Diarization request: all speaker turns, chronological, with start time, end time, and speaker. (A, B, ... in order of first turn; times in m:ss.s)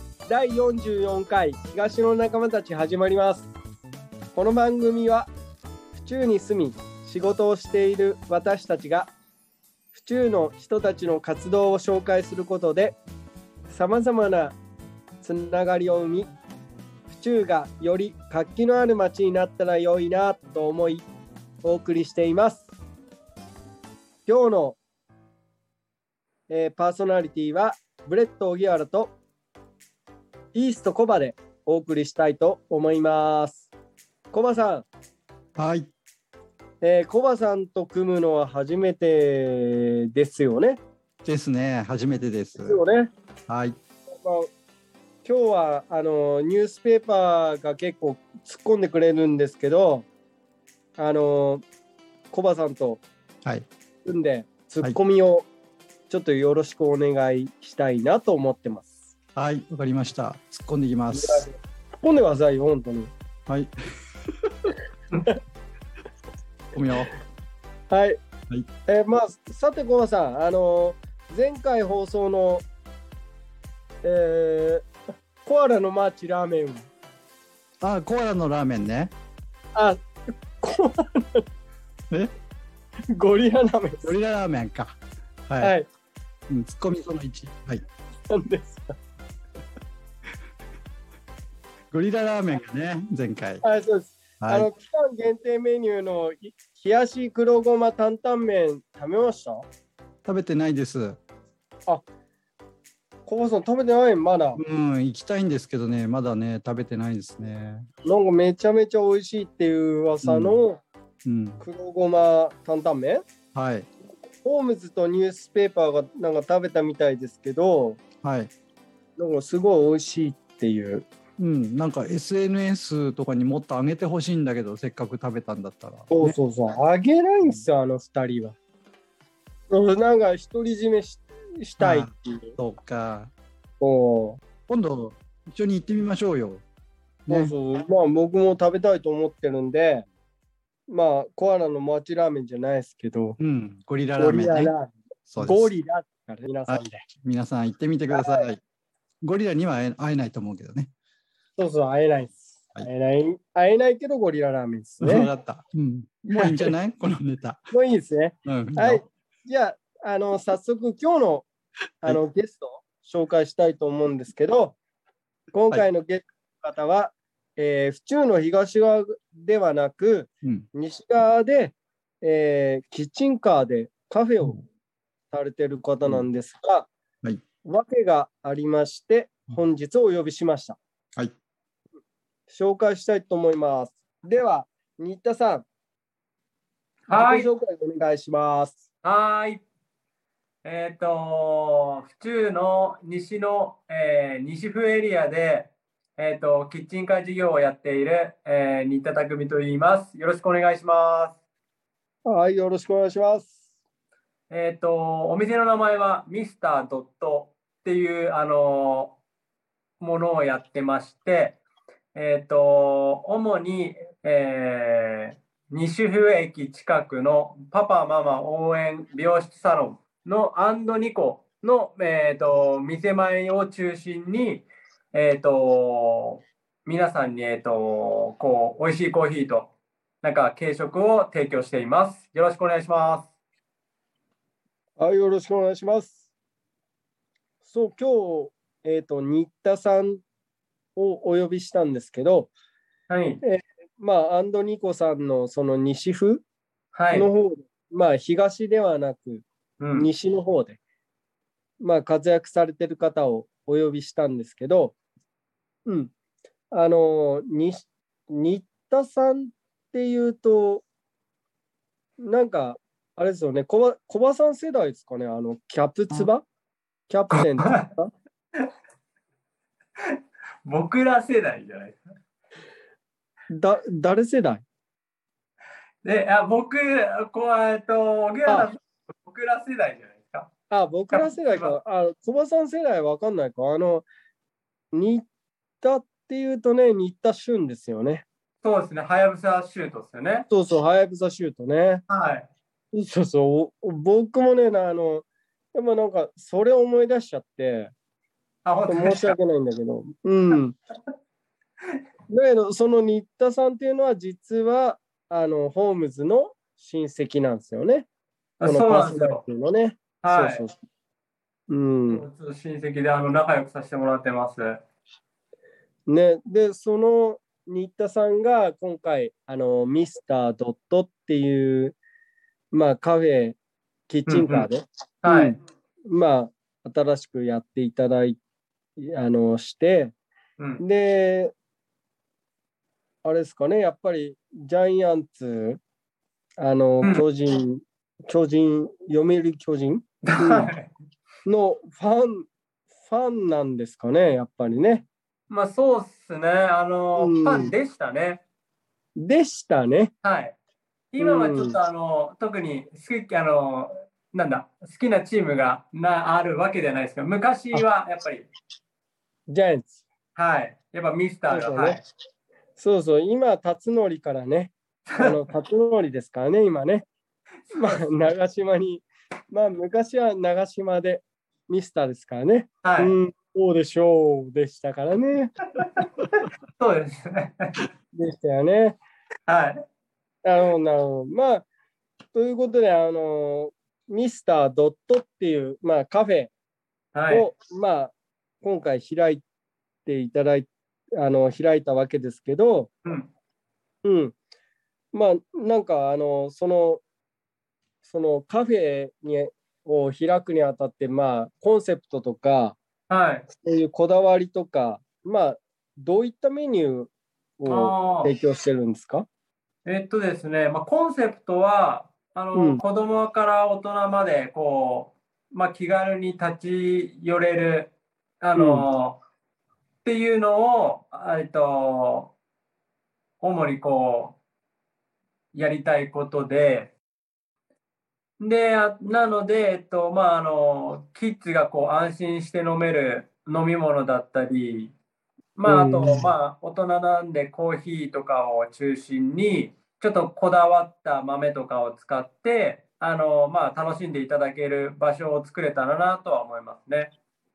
0:00.2-0:03.5 A
0:04.3-0:05.3 A
0:05.9-0:09.1 A
0:09.9-0:13.0 A
0:13.7-0:14.6 A
0:15.2-0:16.3 A
0:17.1-0:21.1 A
0:21.6-0:22.7 A
0:24.2-0:24.8 A
0:26.5-0:29.1 A
0:30.5-0:33.7 A
0:34.3-0:34.9 A
0:35.6-0:35.9 B
0:36.8-0:40.8 A
0:41.2-0:42.8 B
0:42.6-0:43.1 A
0:43.5-0:43.8 B
0:44.1-0:44.5 A
0:45.2-0:50.1 A
0:51.0-0:51.6 A
0:52.3-0:53.0 A
0:54.0-0:55.5 A
0:56.1-0:58.9 A
0:59.4-1:01.4 B
1:01.1-1:03.1 A
1:04.4-1:04.7 B
1:06.7-1:07.2 B
1:07.9-1:08.2 A
1:08.9-1:12.6 A
1:14.0-1:14.8 A
1:15.4-1:16.9 A
1:17.8-1:19.1 B
1:20.6-1:21.4 A
1:23.1-1:24.1 A
1:24.0-1:25.0 B
1:25.5-1:25.7 B
1:25.6-1:25.9 A
1:26.5-1:27.8 B
1:28.3-1:28.9 A
1:31.9-1:33.6 B
1:33.6-1:39.6 A
1:34.4-1:34.7 B
1:40.2-1:41.2 B
1:43.2-1:44.6 A
1:44.6-1:47.9 B
1:48.0-1:50.8 A
1:50.2-1:50.6 B
1:51.2-1:51.6 B
1:51.6-1:53.2 A
1:53.5-1:53.9 B
1:54.4-1:58.0 A
1:58.2-1:58.5 B
1:59.2-2:01.1 A
2:01.4-2:06.4 B
2:06.1-2:08.6 A
2:09.7-2:12.5 A
2:11.8-2:13.3 B
2:13.8-2:14.4 A
2:14.7-2:16.6 B
2:17.2-2:17.5 B
2:17.3-2:20.0 A
2:20.9-2:23.4 A
2:23.4-2:24.7 B
2:24.2-2:27.0 A
2:25.3-2:25.7 B
2:26.6-2:28.6 B
2:28.1-2:28.5 A
2:29.2-2:30.9 B
2:31.6-2:35.3 A
2:35.0-2:37.6 B
2:37.7-2:41.5 A
2:38.4-2:39.0 B
2:42.0-2:44.8 A
2:45.5-2:54.6 A
2:55.3-2:56.9 A
2:57.6-3:00.8 A
3:02.5-3:05.6 A
3:07.1-3:07.5 C
3:07.1-3:08.8 A
3:09.0-3:09.6 C
3:10.6-3:21.4 C
3:22.2-3:23.6 A
3:24.5-3:29.2 C
3:30.0-3:31.6 C
3:32.1-3:49.7 C
3:50.2-3:53.3 C
3:55.0-3:56.2 A
3:57.6-4:00.2 A
4:01.0-4:02.5 A
4:03.1-4:03.4 C
4:03.4-4:06.4 A
4:06.9-4:07.3 C
4:07.1-4:10.8 A
4:09.8-4:10.1 C
4:11.8-4:15.0 A
4:15.8-4:16.1 A
4:16.7-4:20.8 A
4:22.2-4:26.4 A
4:27.1-4:28.1 A
4:30.6-4:32.0 C
4:33.5-4:34.6 A
4:36.0-4:40.5 C
4:40.7-4:44.0 A
4:41.1-4:41.7 C
4:44.9-4:45.2 A
4:45.8-4:48.2 A
4:48.6-4:50.5 C
4:50.5-4:52.0 A
4:52.1-4:52.5 C
4:52.9-4:57.9 A
4:58.6-4:59.3 C
4:58.9-5:00.8 A
5:02.3-5:08.0 A
5:08.6-5:09.4 C
5:08.6-5:10.8 A
5:10.2-5:10.6 C
5:11.7-5:12.2 A
5:12.1-5:14.8 C
5:16.1-5:22.0 A
5:22.7-5:23.6 A
5:24.1-5:25.6 A
5:24.3-5:24.7 C
5:25.2-5:25.6 C
5:26.1-5:28.4 A
5:29.0-5:30.1 A
5:30.8-5:31.5 A
5:33.2-5:35.8 A
5:36.6-5:40.7 A
5:40.3-5:40.9 C
5:41.4-5:42.5 A
5:43.0-5:45.1 A
5:45.5-5:48.4 C
5:47.2-5:47.7 A
5:49.2-5:50.1 A
5:50.2-5:50.5 C
5:51.1-5:58.5 C
5:51.2-5:51.8 A
5:59.5-6:00.0 A
6:00.4-6:02.0 C
6:01.5-6:02.0 A
6:02.8-6:07.1 A
6:05.1-6:05.4 C
6:07.6-6:08.3 C
6:07.7-6:15.6 A
6:12.8-6:13.1 C
6:15.8-6:16.3 C
6:16.8-6:17.6 C
6:18.1-6:19.0 A
6:19.5-6:19.8 C
6:20.4-6:21.6 A
6:22.3-6:26.5 A
6:27.1-6:27.5 C
6:27.3-6:29.4 A
6:30.0-6:32.9 A
6:34.0-6:34.4 A
6:35.1-6:37.0 A
6:38.0-6:42.8 A
6:43.1-6:43.5 C
6:43.5-6:49.3 A
6:47.7-6:48.3 C
6:49.8-6:59.2 C
6:52.5-6:52.8 A
6:58.6-6:58.8 A
7:00.0-7:02.3 C
7:03.4-7:04.4 C
7:05.5-7:06.9 C
7:08.4-7:14.9 C
7:15.6-7:27.1 C
7:15.6-7:16.3 A